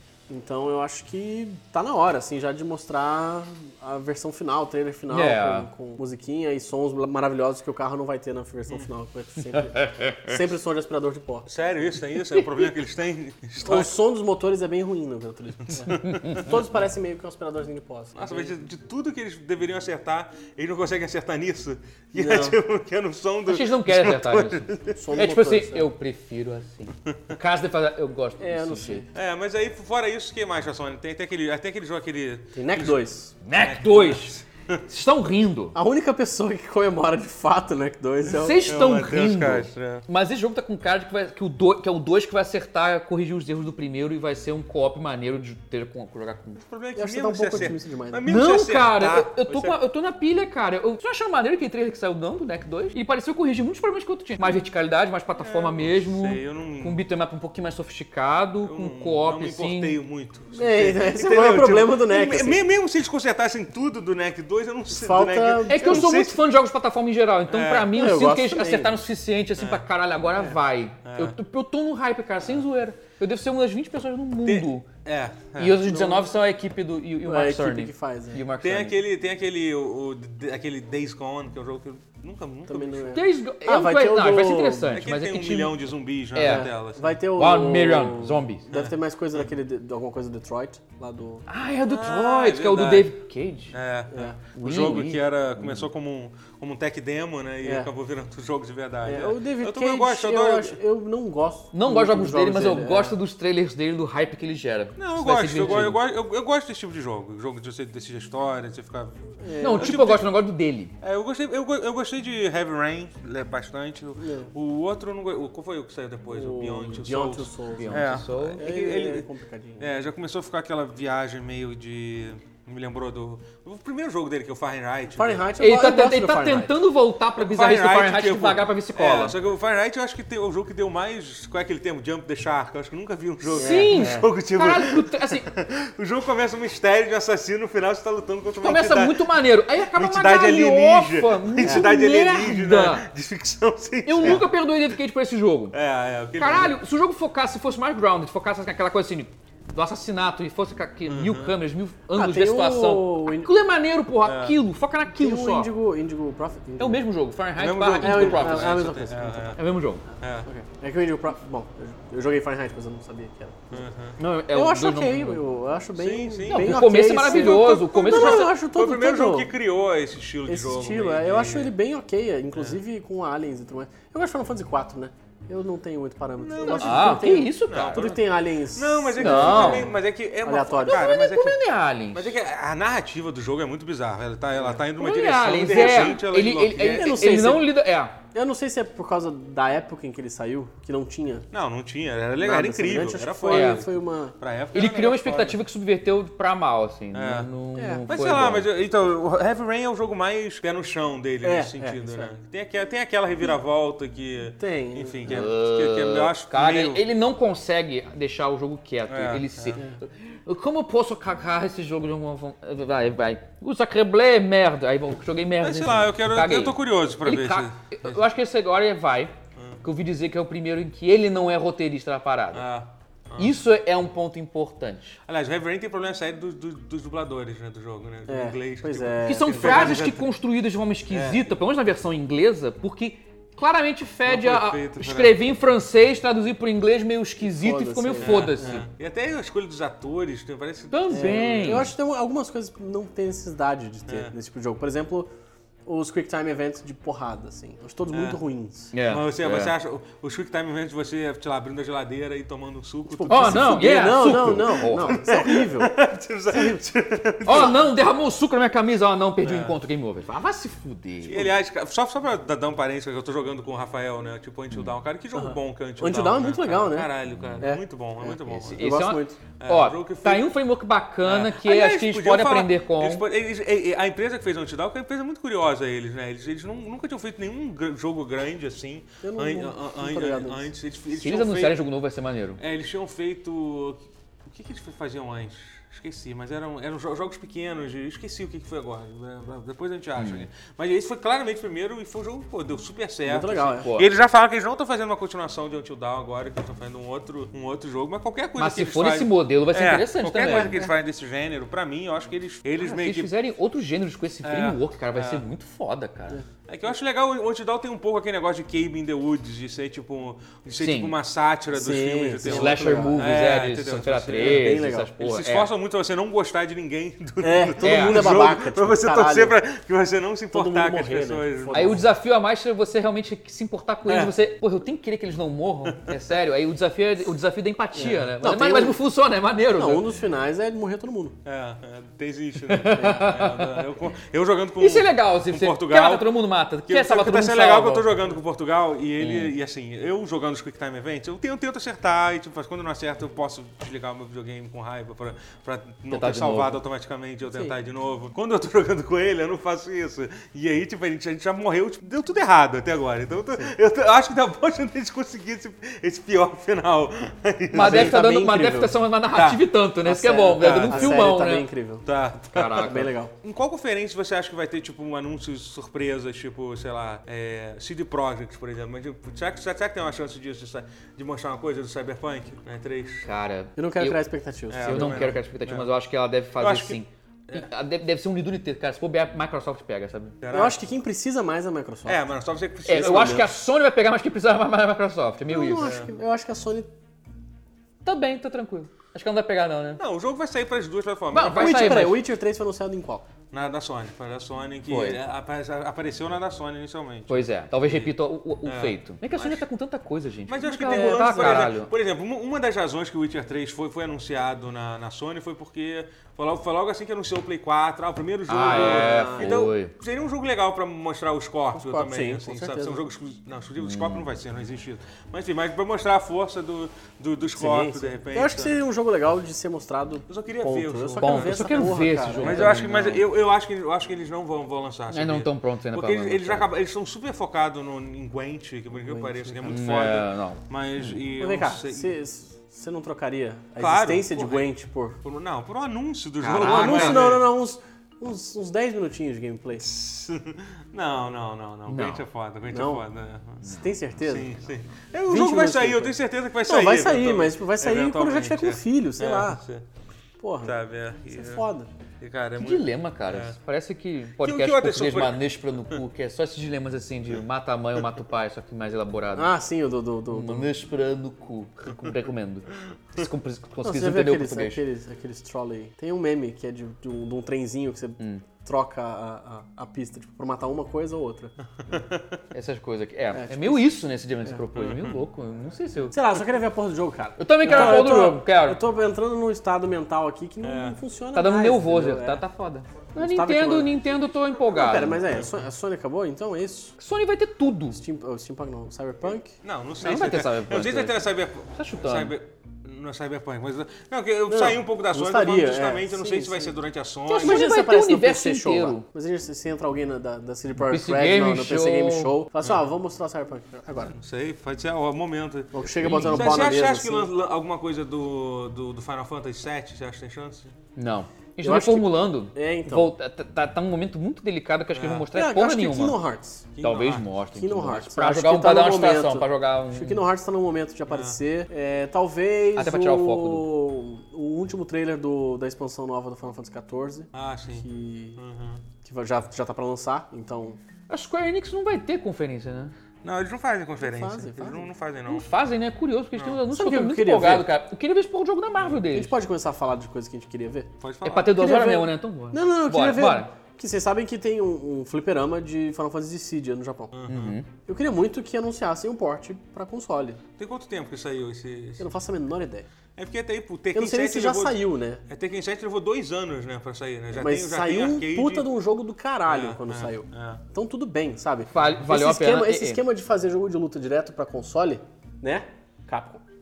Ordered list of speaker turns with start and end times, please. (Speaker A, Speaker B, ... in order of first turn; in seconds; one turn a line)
Speaker A: 0.3-11.5
Speaker B: 5.1-5.7
Speaker B: 9.5-10.4
Speaker C: 11.5-13.9
Speaker A: 13.6-18.6
Speaker C: 15.7-16.5
Speaker B: 15.9-16.5
Speaker C: 18.2-25.0
Speaker A: 22.1-22.6
Speaker B: 23.5-29.1
Speaker A: 24.9-25.9
Speaker A: 28.4-29.1
Speaker C: 29.1-33.0
Speaker A: 32.5-33.3
Speaker B: 33.4-35.8
Speaker C: 33.6-34.8
Speaker A: 35.8-38.7
Speaker B: 38.3-46.6
Speaker C: 38.7-40.0
Speaker C: 46.6-49.8
Speaker A: 47.0-48.3
Speaker B: 48.3-60.0
Speaker C: 55.4-57.0
Speaker C: 58.6-66.4
Speaker A: 60.5-62.6
Speaker A: 64.9-66.1
Speaker B: 65.7-74.9
Speaker C: 67.5-68.0
Speaker A: 67.9-69.0
Speaker C: 69.6-69.8
Speaker C: 70.4-71.3
Speaker C: 74.5-75.8
Speaker B: 75.6-79.0
Speaker A: 75.8-76.3
Speaker A: 77.2-78.4
Speaker C: 78.6-83.2
Speaker A: 82.7-85.0
Speaker B: 83.1-85.8
Speaker C: 84.9-87.2
Speaker B: 86.3-86.7
Speaker A: 86.4-91.5
Speaker B: 87.3-88.7
Speaker B: 91.5-93.7
Speaker C: 91.9-93.1
Speaker C: 93.7-100.8
Speaker A: 94.1-94.4
Speaker B: 94.5-95.9
Speaker A: 97.6-97.9
Speaker A: 99.0-103.2
Speaker B: 101.7-106.0
Speaker C: 105.0-110.3
Speaker A: 109.4-110.0
Speaker B: 109.6-110.9
Speaker C: 111.0-119.3
Speaker A: 114.2-114.5
Speaker A: 116.3-120.0
Speaker B: 117.8-118.7
Speaker C: 119.8-125.5
Speaker A: 125.1-126.8
Speaker B: 125.6-129.4
Speaker C: 127.4-144.5
Speaker A: 133.5-134.3
Speaker B: 133.5-135.5
Speaker B: 138.6-143.1
Speaker A: 141.6-141.9
Speaker B: 144.1-145.8
Speaker C: 145.7-146.8
Speaker B: 146.4-155.7
Speaker C: 151.1-151.5
Speaker A: 152.1-153.5
Speaker C: 154.2-154.6
Speaker A: 155.1-157.0
Speaker B: 156.8-158.8
Speaker C: 157.6-159.6
Speaker A: 158.0-159.6
Speaker B: 159.6-160.0
Speaker C: 160.2-160.5
Speaker A: 160.4-163.9
Speaker C: 163.7-164.2
Speaker B: 164.2-165.4
Speaker A: 164.5-169.5
Speaker C: 166.0-171.7
Speaker B: 166.5-168.5
Speaker A: 170.5-181.1
Speaker C: 176.4-187.3
Speaker B: 176.6-178.1
Speaker B: 179.2-179.9
Speaker B: 180.8-182.4
Speaker B: 185.0-188.2
Speaker A: 185.7-186.2
Speaker A: 186.9-187.7
Speaker A: 188.3-191.5
Speaker C: 191.5-195.6
Speaker A: 192.4-194.4
Speaker B: 193.5-193.8
Speaker B: 194.7-198.7
Speaker C: 197.1-197.5
Speaker A: 197.8-198.0
Speaker C: 198.1-207.0
Speaker A: 201.4-202.3
Speaker A: 204.6-205.5
Speaker B: 205.3-222.7
Speaker C: 209.1-209.8
Speaker C: 215.6-218.2
Speaker C: 219.6-219.8
Speaker C: 222.5-223.5
Speaker B: 223.4-225.2
Speaker C: 225.3-230.3
Speaker A: 228.3-230.1
Speaker B: 229.2-238.9
Speaker C: 231.1-231.5
Speaker C: 234.3-235.4
Speaker A: 237.4-238.8
Speaker C: 238.2-241.9
Speaker B: 240.9-241.9
Speaker A: 241.1-245.3
Speaker C: 244.1-244.3
Speaker A: 245.9-248.9
Speaker C: 248.1-248.4
Speaker B: 248.9-249.7
Speaker C: 249.1-257.9
Speaker A: 253.1-255.9
Speaker B: 253.3-255.2
Speaker A: 256.5-256.8
Speaker B: 257.4-261.5
Speaker C: 259.4-259.8
Speaker C: 261.2-268.9
Speaker A: 265.4-269.4
Speaker B: 268.5-273.2
Speaker C: 269.6-270.5
Speaker C: 271.2-281.8
Speaker A: 279.2-280.7
Speaker B: 281.1-282.6
Speaker C: 282.6-303.3
Speaker B: 290.2-290.5
Speaker A: 293.3-293.9
Speaker B: 293.7-294.1
Speaker B: 298.6-300.9
Speaker B: 302.8-306.4
Speaker C: 304.4-305.4
Speaker C: 306.7-322.0
Speaker B: 310.8-311.1
Speaker A: 311.7-313.4
Speaker B: 312.4-315.7
Speaker A: 314.3-315.1
Speaker A: 317.4-319.6
Speaker B: 317.8-318.4
Speaker A: 320.5-322.1
Speaker B: 321.7-330.0
Speaker C: 324.1-324.3
Speaker A: 327.9-329.0
Speaker A: 329.7-331.4
Speaker C: 331.4-336.3
Speaker B: 332.7-333.9
Speaker A: 333.0-333.3
Speaker B: 334.8-338.2
Speaker C: 336.9-358.2
Speaker B: 339.2-339.5
Speaker B: 346.1-346.8
Speaker A: 347.5-347.8
Speaker A: 357.7-359.0
Speaker B: 357.7-361.7
Speaker C: 359.3-359.6
Speaker A: 360.0-362.1
Speaker C: 360.6-361.2
Speaker C: 362.1-373.3
Speaker B: 362.5-363.1
Speaker A: 362.8-363.3
Speaker B: 373.2-374.2
Speaker A: 373.8-375.3
Speaker C: 374.7-375.9
Speaker B: 374.8-380.4
Speaker C: 376.6-377.7
Speaker C: 380.4-380.8
Speaker A: 380.5-382.2
Speaker C: 382.1-383.4
Speaker B: 382.9-385.9
Speaker A: 382.9-383.5
Speaker A: 385.5-386.9
Speaker C: 385.8-386.1
Speaker B: 388.0-390.0
Speaker C: 390.0-392.1
Speaker B: 391.3-392.2
Speaker A: 391.5-393.3
Speaker C: 393.5-399.6
Speaker B: 394.9-395.2
Speaker B: 397.3-401.9
Speaker C: 400.5-418.8
Speaker A: 400.6-401.7
Speaker B: 408.5-409.9
Speaker A: 408.5-409.6
Speaker A: 411.7-413.0
Speaker B: 413.8-414.3
Speaker A: 417.6-423.2
Speaker C: 420.3-432.1
Speaker B: 421.2-423.2
Speaker B: 425.1-426.7
Speaker A: 429.1-429.8
Speaker B: 429.7-431.1
Speaker A: 431.4-435.2
Speaker C: 433.8-434.7
Speaker C: 435.2-437.5
Speaker B: 436.4-437.4
Speaker A: 436.6-439.9
Speaker C: 439.8-443.6
Speaker B: 441.9-442.3
Speaker A: 442.7-443.1
Speaker A: 443.6-444.5
Speaker C: 444.2-449.9
Speaker A: 445.3-449.6
Speaker A: 450.4-450.8
Speaker C: 450.6-451.6
Speaker A: 451.3-451.9
Speaker C: 452.2-453.6
Speaker B: 452.6-459.5
Speaker C: 454.4-456.0
Speaker A: 459.4-460.7
Speaker B: 460.3-464.8
Speaker A: 463.8-471.5
Speaker C: 471.9-472.4
Speaker B: 472.5-476.3
Speaker A: 473.3-473.9
Speaker C: 474.7-475.2
Speaker A: 476.1-482.4
Speaker B: 477.4-478.8
Speaker C: 480.6-481.0
Speaker B: 481.3-485.2
Speaker A: 483.1-484.0
Speaker A: 484.7-487.0
Speaker B: 487.0-488.0
Speaker A: 487.9-489.5
Speaker C: 489.6-497.7
Speaker B: 490.0-492.3
Speaker A: 494.5-496.8
Speaker B: 497.3-499.1
Speaker A: 497.3-504.2
Speaker B: 500.8-502.3
Speaker C: 504.1-510.7
Speaker A: 505.7-507.3
Speaker B: 505.9-506.7
Speaker B: 511.0-516.2
Speaker A: 511.6-513.1
Speaker C: 515.0-515.3
Speaker A: 515.3-516.7
Speaker C: 516.8-517.3
Speaker B: 516.8-520.2
Speaker A: 517.5-528.4
Speaker C: 521.1-521.4
Speaker B: 522.8-523.7
Speaker C: 527.3-528.8
Speaker A: 529.0-530.8
Speaker B: 531.1-532.9
Speaker C: 533.2-535.5
Speaker A: 534.0-534.9
Speaker B: 535.3-539.3
Speaker C: 536.4-536.6
Speaker A: 536.7-537.7
Speaker A: 539.1-540.9
Speaker C: 541.0-541.6
Speaker B: 541.2-543.5
Speaker A: 541.5-547.2
Speaker C: 547.1-547.6
Speaker B: 547.3-547.7
Speaker A: 547.9-550.4
Speaker C: 550.6-552.1
Speaker A: 552.0-552.9
Speaker C: 553.2-558.7
Speaker A: 553.9-555.2
Speaker A: 557.4-566.4
Speaker C: 559.5-560.6
Speaker B: 561.7-563.0